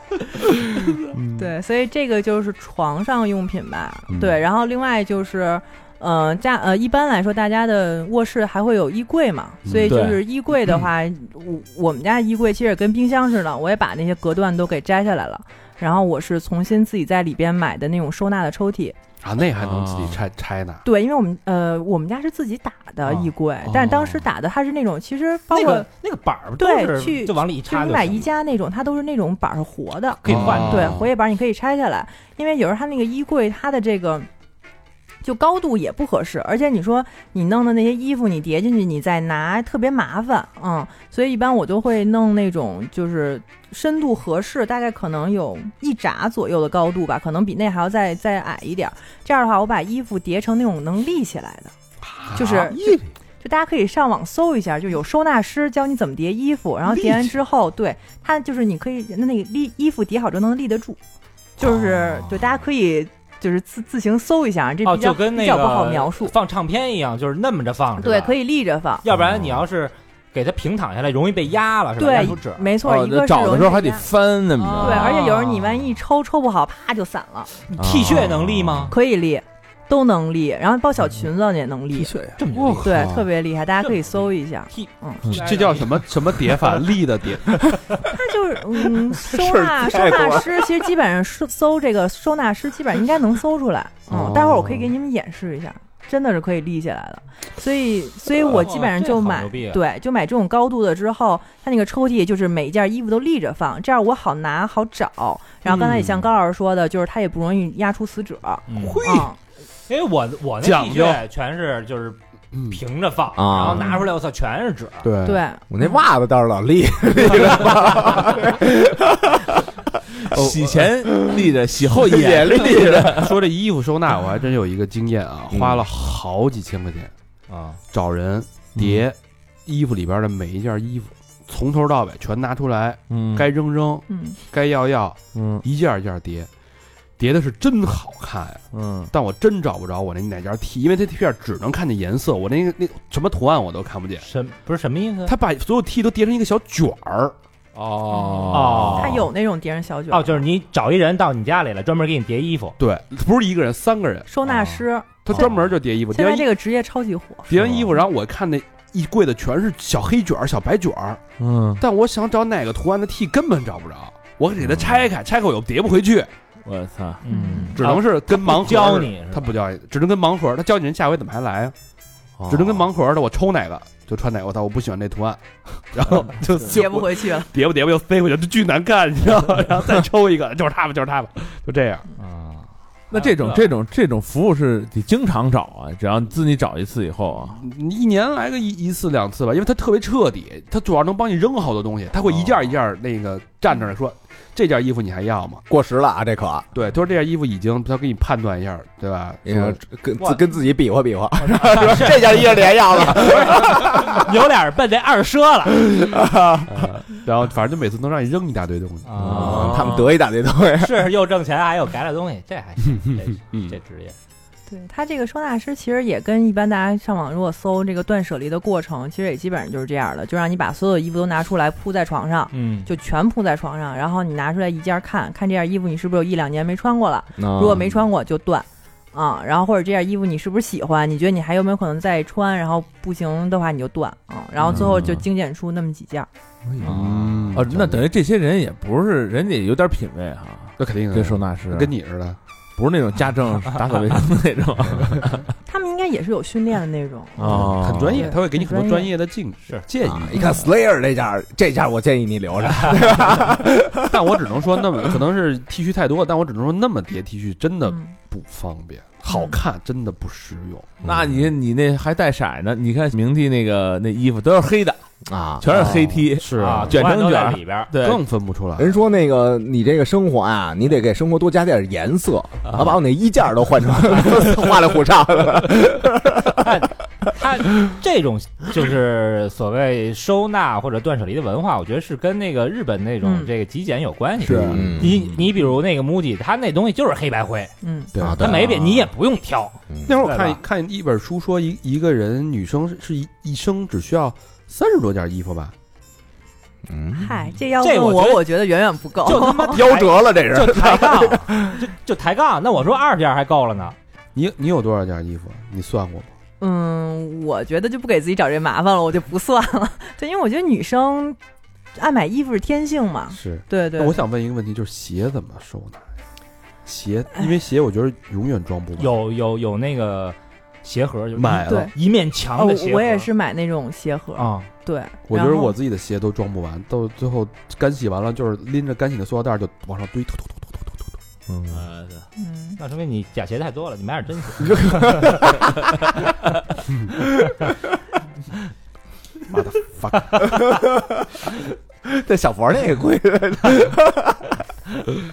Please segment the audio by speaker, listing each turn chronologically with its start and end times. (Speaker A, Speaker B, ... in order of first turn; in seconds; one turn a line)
Speaker A: 1.1-1.5
Speaker B: 1.4-18.9
Speaker A: 9.7-9.9
Speaker C: 9.8-10.2
Speaker A: 19.2-20.8
Speaker C: 19.6-20.2
Speaker B: 20.8-25.9
Speaker A: 23.7-24.2
Speaker D: 25.5-28.3
Speaker B: 26.6-34.3
Speaker D: 30.2-31.0
Speaker A: 30.2-31.1
Speaker B: 35.2-51.7
Speaker A: 52.0-52.7
Speaker B: 52.3-61.0
Speaker B: 61.6-66.3
Speaker D: 64.8-68.4
Speaker B: 68.0-69.0
Speaker D: 69.0-72.8
Speaker C: 69.1-69.6
Speaker B: 72.0-74.0
Speaker C: 72.8-75.2
Speaker B: 74.6-77.5
Speaker D: 74.6-75.7
Speaker D: 77.7-78.9
Speaker C: 77.8-78.9
Speaker B: 78.9-82.2
Speaker D: 82.4-83.1
Speaker A: 82.5-83.3
Speaker B: 82.8-85.3
Speaker D: 84.7-86.8
Speaker A: 85.3-87.6
Speaker B: 88.1-109.4
Speaker E: 88.9-90.8
Speaker A: 94.1-94.8
Speaker D: 98.5-99.8
Speaker A: 105.7-106.2
Speaker D: 108.7-109.1
Speaker A: 108.8-109.3
Speaker D: 109.9-112.2
Speaker A: 110.6-111.2
Speaker A: 112.5-112.8
Speaker D: 112.7-115.1
Speaker E: 113.3-114.0
Speaker A: 113.6-114.0
Speaker A: 115.0-115.4
Speaker B: 115.2-115.7
Speaker E: 115.7-119.3
Speaker C: 120.3-123.3
Speaker A: 120.3-120.7
Speaker E: 121.1-123.3
Speaker A: 122.7-127.1
Speaker D: 127.5-127.8
Speaker A: 127.9-136.5
Speaker C: 128.8-129.0
Speaker C: 133.1-133.5
Speaker B: 134.1-134.4
Speaker C: 135.3-135.6
Speaker A: 137.2-144.2
Speaker C: 138.7-139.1
Speaker D: 144.2-145.3
Speaker A: 145.2-148.9
Speaker C: 147.8-149.2
Speaker B: 148.1-150.4
Speaker D: 148.5-149.3
Speaker D: 150.1-152.8
Speaker A: 152.8-154.3
Speaker B: 154.3-155.5
Speaker D: 154.4-154.8
Speaker A: 155.2-156.5
Speaker B: 156.1-157.5
Speaker A: 157.5-161.2
Speaker C: 157.6-157.9
Speaker C: 161.4-161.8
Speaker A: 161.8-166.3
Speaker C: 166.6-167.2
Speaker D: 167.2-169.5
Speaker B: 167.2-167.8
Speaker A: 167.8-171.7
Speaker C: 172.4-172.8
Speaker A: 172.5-182.1
Speaker B: 176.6-177.5
Speaker D: 182.2-183.7
Speaker C: 183.1-187.6
Speaker A: 187.5-195.6
Speaker E: 195.7-196.7
Speaker A: 196.7-199.8
Speaker E: 199.4-204.3
Speaker D: 200.2-200.5
Speaker D: 201.4-206.2
Speaker E: 205.9-206.8
Speaker A: 206.7-209.9
Speaker D: 209.0-210.1
Speaker E: 209.2-211.1
Speaker C: 209.4-209.9
Speaker D: 210.7-214.2
Speaker A: 213.0-213.8
Speaker B: 214.7-236.3
Speaker D: 222.5-222.9
Speaker E: 227.4-228.0
Speaker C: 234.7-235.2
Speaker E: 236.7-237.6
Speaker C: 236.8-241.9
Speaker A: 236.8-238.0
Speaker A: 240.8-242.4
Speaker C: 242.8-245.5
Speaker B: 245.7-249.1
Speaker C: 247.4-248.3
Speaker A: 247.5-250.3
Speaker E: 250.0-254.3
Speaker A: 254.1-261.0
Speaker B: 257.9-258.1
Speaker B: 259.3-259.6
Speaker C: 261.0-265.0
Speaker E: 261.0-261.4
Speaker E: 265.3-265.9
Speaker C: 265.6-268.2
Speaker A: 265.7-267.0
Speaker D: 266.6-267.9
Speaker A: 268.0-268.9
Speaker E: 268.8-276.7
Speaker D: 276.6-287.7
Speaker B: 283.2-283.5
Speaker E: 284.4-285.2
Speaker C: 284.4-285.4
Speaker A: 284.4-284.9
Speaker B: 287.8-288.1
Speaker A: 288.1-288.5
Speaker E: 288.2-288.9
Speaker D: 288.4-290.6
Speaker C: 288.6-288.9
Speaker A: 290.0-295.7
Speaker E: 296.9-297.3
Speaker B: 297.1-299.8
Speaker D: 297.8-298.4
Speaker D: 299.2-304.0
Speaker E: 299.3-301.7
Speaker A: 304.3-306.3
Speaker B: 306.6-311.4
Speaker B: 311.9-314.2
Speaker A: 313.3-316.0
Speaker A: 316.9-319.1
Speaker D: 319.0-323.3
Speaker A: 321.3-321.9
Speaker B: 321.6-321.9
Speaker B: 322.5-325.7
Speaker D: 324.4-324.7
Speaker A: 325.3-331.1
Speaker E: 331.5-331.8
Speaker C: 331.7-332.2
Speaker B: 332.4-332.8
Speaker D: 332.8-335.5
Speaker E: 334.6-335.6
Speaker A: 339.5-340.6
Speaker E: 340.4-341.2
Speaker E: 342.0-344.6